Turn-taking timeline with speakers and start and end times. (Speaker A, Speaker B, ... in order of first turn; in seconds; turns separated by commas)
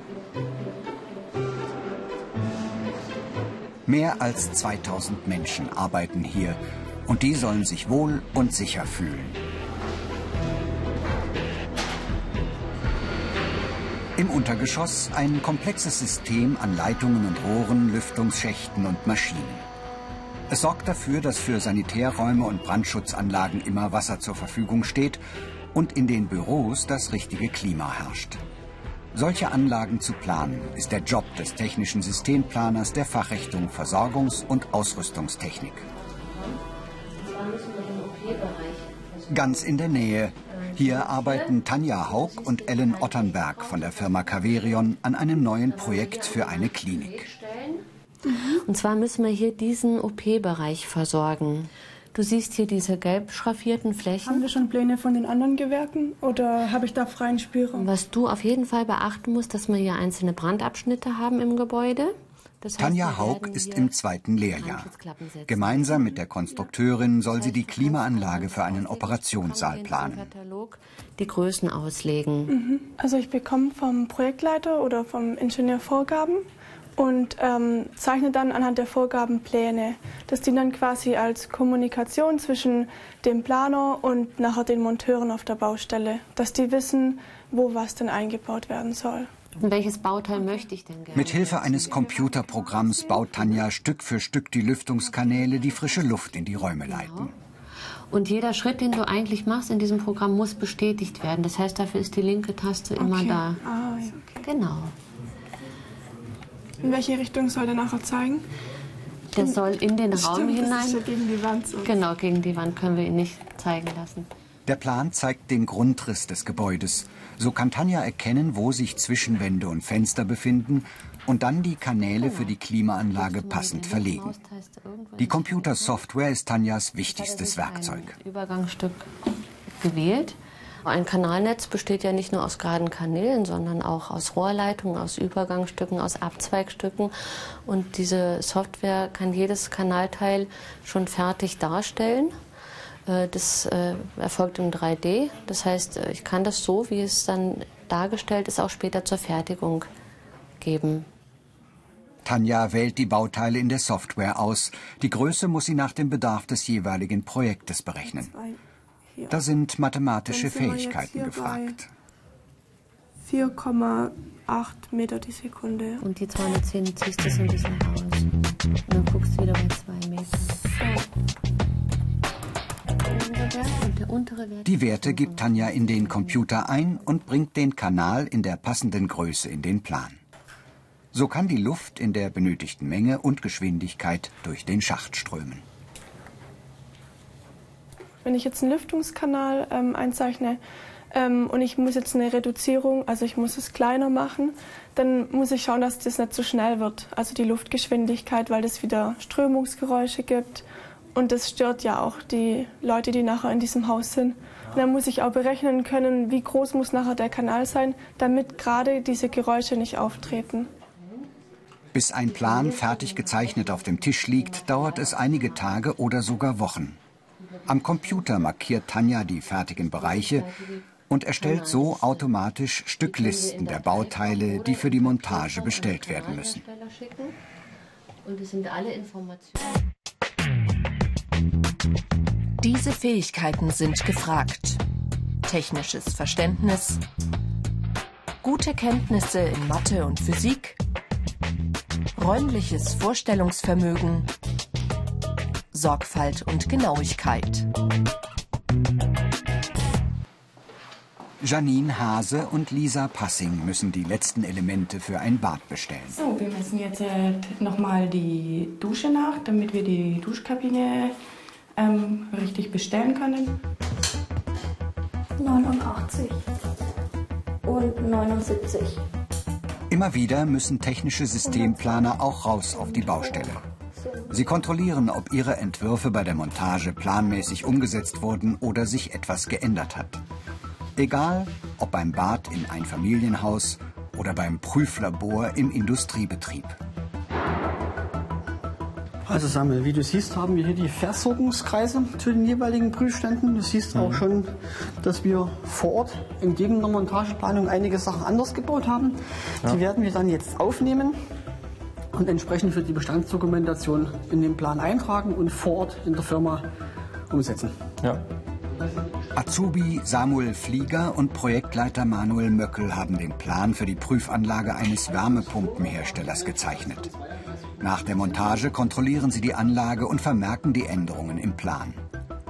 Speaker A: 3.9-9.4, Speaker A: 14.2-19.6, Speaker A: 20.5-25.2, Speaker A: 25.7-28.4, Speaker A: 29.1-35.9, Speaker B: 35.8-36.6, Speaker B: 37.2-47.8, Speaker A: 39.3-47.3, Speaker C: 48.2-48.6, Speaker B: 48.7-54.4, Speaker C: 54.2-57.9, Speaker B: 57.7-63.9, Speaker A: 62.8-64.9, Speaker B: 64.5-72.5, Speaker A: 65.5-70.3, Speaker C: 72.5-76.4, Speaker C: 77.0-89.3, Speaker B: 89.6-92.1, Speaker A: 91.1-97.3, Speaker C: 91.6-93.6, Speaker C: 95.0-96.0, Speaker B: 96.2-97.3, Speaker B: 98.1-103.6, Speaker C: 103.0-104.5, Speaker B: 104.4-104.9, Speaker C: 106.8-108.5, Speaker B: 109.3-111.0, Speaker C: 109.4-112.0, Speaker B: 111.8-114.3, Speaker A: 114.7-124.3, Speaker B: 122.2-122.5, Speaker B: 123.1-126.0, Speaker A: 125.2-128.1, Speaker B: 127.1-129.1, Speaker B: 129.8-137.1, Speaker B: 137.7-142.3, Speaker B: 143.1-149.9, Speaker B: 150.6-151.1, Speaker A: 152.2-158.3, Speaker C: 158.1-158.6, Speaker C: 159.1-159.4, Speaker A: 159.3-161.9, Speaker C: 160.3-161.8, Speaker C: 163.2-166.0, Speaker B: 166.0-168.3, Speaker B: 168.9-170.7, Speaker C: 170.7-171.1, Speaker B: 173.1-176.9, Speaker A: 174.7-180.2, Speaker A: 181.1-185.7, Speaker C: 188.2-190.6, Speaker C: 191.1-210.7, Speaker A: 211.9-217.0, Speaker B: 212.3-215.9, Speaker B: 217.4-218.5, Speaker A: 217.7-220.5, Speaker B: 219.8-222.3, Speaker A: 221.1-226.6, Speaker B: 223.0-227.4, Speaker B: 228.2-229.7, Speaker D: 232.6-234.8, Speaker D: 235.4-237.0, Speaker D: 238.4-240.8, Speaker D: 242.2-244.3, Speaker D: 245.7-247.7, Speaker A: 251.4-256.2, Speaker E: 256.1-261.1, Speaker E: 261.8-263.6, Speaker F: 265.4-266.4, Speaker F: 267.6-269.0, Speaker A: 269.9-273.6, Speaker F: 271.5-272.1, Speaker F: 272.7-273.5, Speaker F: 274.0-274.3, Speaker A: 274.3-280.2, Speaker A: 280.9-286.8, Speaker G: 289.2-301.2, Speaker G: 302.1-306.7, Speaker G: 307.3-307.8, Speaker A: 309.4-317.1, Speaker A: 317.8-322.0